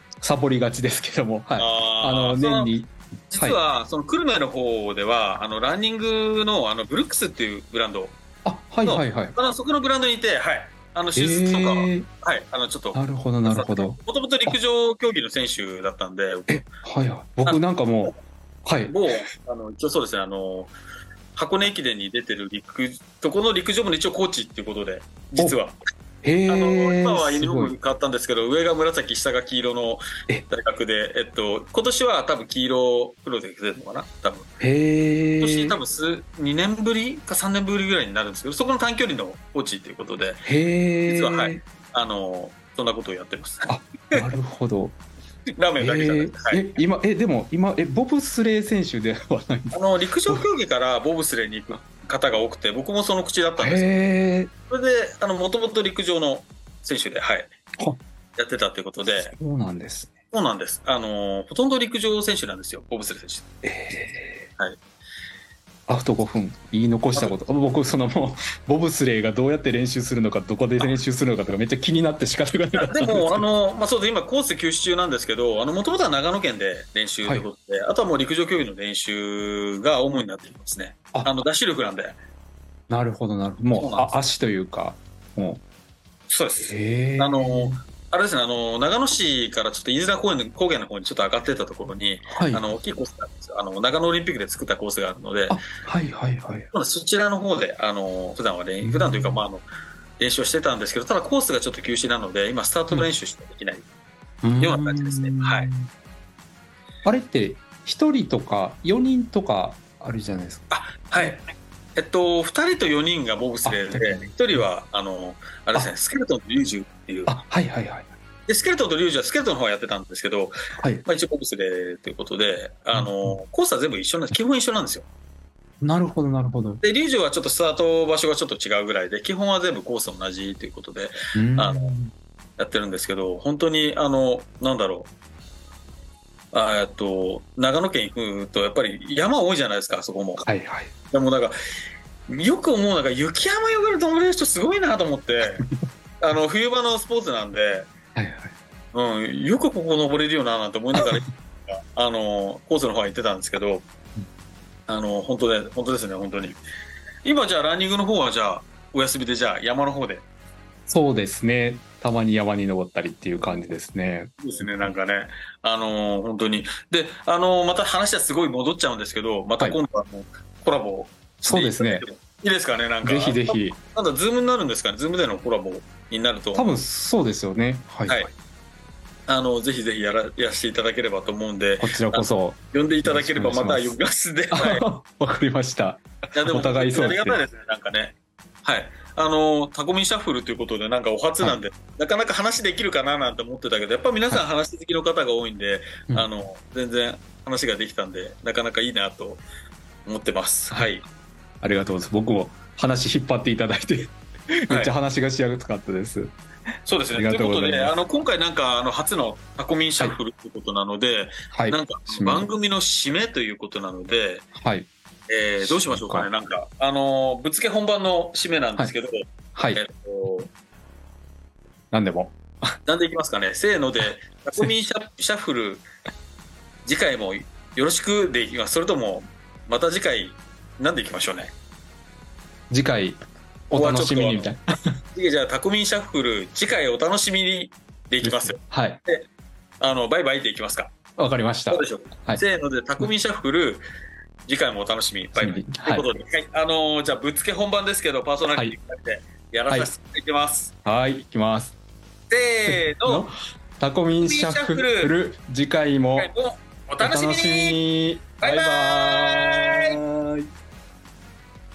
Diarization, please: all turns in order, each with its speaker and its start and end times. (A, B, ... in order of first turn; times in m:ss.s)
0:00.2-0:03.6 A
0:01.6-0:02.7 B
0:03.3-0:08.2 B
0:08.4-0:09.3 A
0:08.8-0:16.7 B
0:11.2-0:12.1 A
0:12.9-0:14.6 A
0:16.5-0:19.0 A
0:18.9-0:20.7 B
0:21.4-0:25.8 B
0:26.2-0:27.8 A
0:26.5-0:34.5 B
0:34.6-0:35.8 A
0:35.4-0:40.5 B
0:40.4-0:41.6 A
0:41.1-0:44.2 B
0:43.7-0:45.0 A
0:45.6-0:46.8 B
0:45.8-0:50.4 A
0:49.7-0:53.9 B
0:53.6-0:54.5 A
0:54.7-0:57.5 B
0:58.4-0:59.3 B
0:59.3-1:00.1 A
1:00.3-1:03.4 B
1:03.6-1:04.5 A
1:05.9-1:13.4 A
1:12.8-1:22.2 B
1:22.9-1:25.6 A
1:23.7-1:24.1 B
1:26.3-1:35.6 B
1:26.7-1:27.8 A
1:32.3-1:32.6 A
1:35.5-1:36.7 A
1:36.7-1:39.6 B
1:38.8-1:39.4 A
1:40.2-1:43.8 B
1:44.4-1:45.9 A
1:44.6-1:45.7 B
1:47.0-1:51.4 A
1:50.7-1:57.3 B
1:53.6-1:54.6 A
1:57.3-1:58.1 A
1:58.5-2:00.5 B
2:00.8-2:01.0 A
2:01.0-2:05.0 B
2:02.9-2:03.3 A
2:05.8-2:06.8 A
2:06.8-2:11.9 B
2:11.4-2:12.1 A
2:12.6-2:15.1 B
2:16.5-2:20.4 B
2:20.4-2:20.9 A
2:21.1-2:21.5 B
2:22.3-2:25.6 B
2:26.2-2:27.9 B
2:28.2-2:28.5 A
2:28.9-2:33.9 B
2:34.9-2:36.6 B
2:37.2-2:40.2 B
2:40.9-2:44.4 A
2:44.4-2:56.7 B
2:51.4-2:52.1 A
2:53.0-2:53.8 A
2:56.6-2:58.3 A
2:59.3-3:04.9 B
3:01.8-3:04.0 A
3:04.5-3:07.4 A
3:06.4-3:19.4 B
3:20.1-3:21.0 B
3:21.6-3:26.4 A
3:26.9-3:34.5 B
3:27.1-3:27.9 A
3:31.5-3:32.5 A
3:34.6-3:34.9 A
3:35.3-3:40.5 B
3:35.6-3:36.3 A
3:39.6-3:39.8 A
3:41.9-3:42.8 A
3:42.9-3:45.8 B
3:46.9-3:51.5 B
3:52.7-3:55.0 A
3:53.7-3:54.5 B
3:55.2-3:59.3 B
3:58.2-3:59.0 A
3:59.8-4:00.9 B
4:01.2-4:02.4 A
4:01.7-4:03.8 B
4:04.5-4:10.7 B
4:05.4-4:06.1 A
4:08.5-4:08.8 A
4:10.8-4:11.8 A
4:12.3-4:13.3 B
4:12.7-4:16.3 A
4:14.2-4:15.1 B
4:16.2-4:17.8 B
4:17.0-4:20.5 A
4:18.4-4:20.0 B